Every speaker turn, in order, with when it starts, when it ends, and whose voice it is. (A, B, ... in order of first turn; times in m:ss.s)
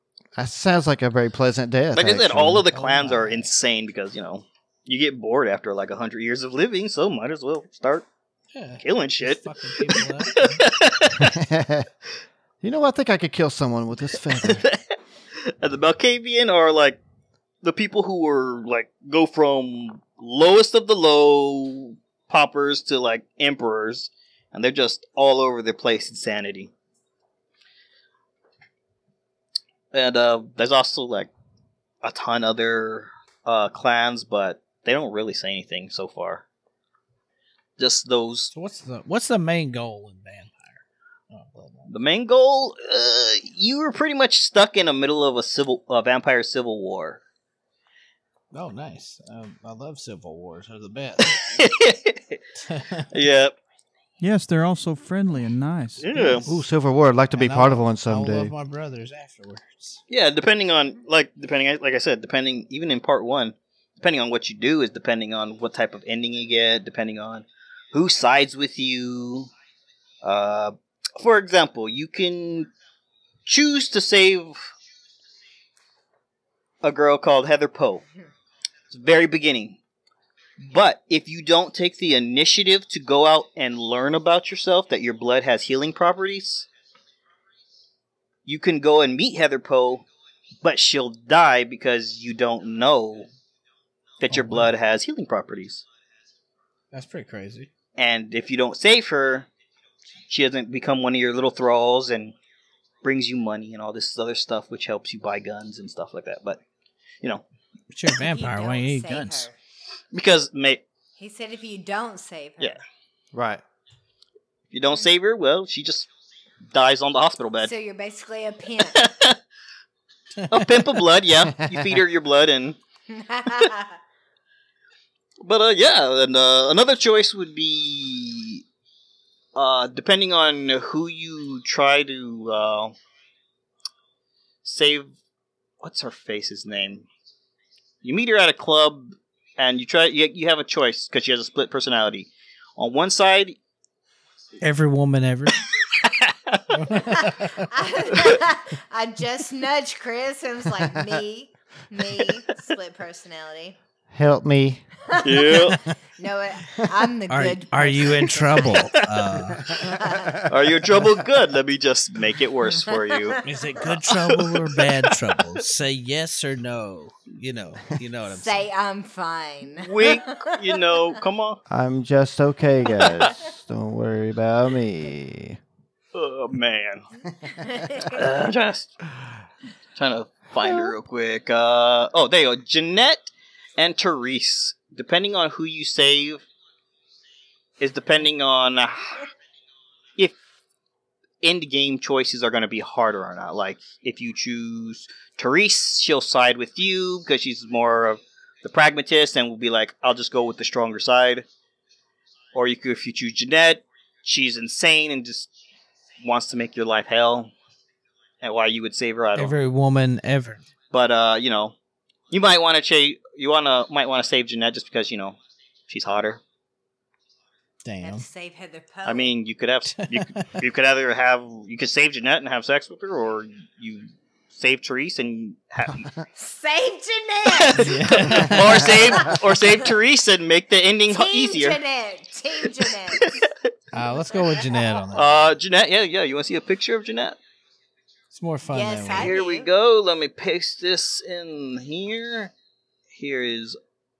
0:00.4-0:02.6 A
0:01.9-0:08.0 B
0:02.6-0:03.5 C
0:08.5-0:10.6 C
0:08.8-0:11.3 B
0:11.2-0:11.9 A
0:12.6-0:14.6 A
0:14.3-0:17.0 B
0:17.6-0:26.7 B
0:29.9-0:31.3 B
0:32.0-0:36.4 B
0:37.8-0:38.5 B
0:38.5-0:41.9 C
0:41.9-0:47.2 B
0:48.5-0:51.6 C
0:51.3-0:52.4 B
0:52.6-0:53.1 C
0:53.1-0:53.6 B
0:54.2-0:56.4 D
0:56.0-0:56.5 B
0:56.5-0:58.5 A
0:57.3-1:00.0 C
1:00.1-1:09.5 B
1:10.2-1:12.7 B
1:13.4-1:14.7 B
1:16.8-1:18.0 B
1:18.9-1:19.8 B
1:20.6-1:26.7 B
1:28.4-1:30.0 B
1:30.6-1:33.3 B
1:34.2-1:35.8 B
1:34.3-1:34.7 C
1:36.9-1:37.7 C
1:38.0-1:39.5 B
1:40.3-1:42.3 B
1:43.0-1:46.6 B
1:47.9-1:49.5 C
1:48.2-1:49.6 E
1:50.1-1:50.8 B
1:51.2-1:52.8 E
1:53.3-1:53.6 A
1:54.7-1:56.1 B
1:56.7-1:57.7 B
1:57.6-1:59.0 E
1:58.8-1:59.4 B
2:00.4-2:00.8 C
2:00.5-2:02.8 B
2:01.6-2:02.0 A
2:03.1-2:04.0 E
2:05.4-2:08.6 B
2:09.5-2:12.9 B
2:14.6-2:15.1 B
2:15.8-2:17.0 B
2:18.0-2:23.6 B
2:24.6-2:25.6 C
2:25.8-2:26.8 B
2:26.7-2:27.7 C
2:27.2-2:33.8 E
2:34.1-2:34.8 A
2:35.1-2:39.1 E
2:35.2-2:35.8 B
2:35.6-2:35.9 C
2:37.3-2:39.8 C
2:39.6-2:40.4 E
2:39.7-2:40.5 A
2:40.5-2:44.9 B
2:42.9-2:43.4 E
2:43.4-2:48.6 C
2:48.3-2:50.8 E
2:49.8-2:51.6 B
2:51.7-2:55.6 A
2:52.8-2:53.3 B
2:56.1-2:57.0 B
2:57.4-2:58.2 E
2:58.0-2:59.1 B
3:00.0-3:06.4 B
3:07.8-3:09.3 B
3:11.4-3:21.4 B
3:22.5-3:25.5 B
3:26.2-3:27.5 B
3:28.4-3:29.5 B
3:29.4-3:30.6 C
3:30.9-3:31.7 B
3:32.3-3:35.4 B
3:35.9-3:36.4 B
3:37.8-3:38.2 C
3:38.0-3:39.4 E
3:39.0-3:46.1 B
3:40.0-3:40.5 C
3:46.3-3:48.0 E
3:47.4-3:51.8 B
3:47.8-3:49.0 C
3:51.1-3:53.4 E
3:52.6-3:53.5 B
3:53.9-3:55.5 C
3:54.1-3:55.0 E
3:55.1-3:57.4 B
3:58.3-3:59.3 C
3:58.7-3:59.7 E
3:59.1-4:02.5 B
4:03.1-4:03.8 B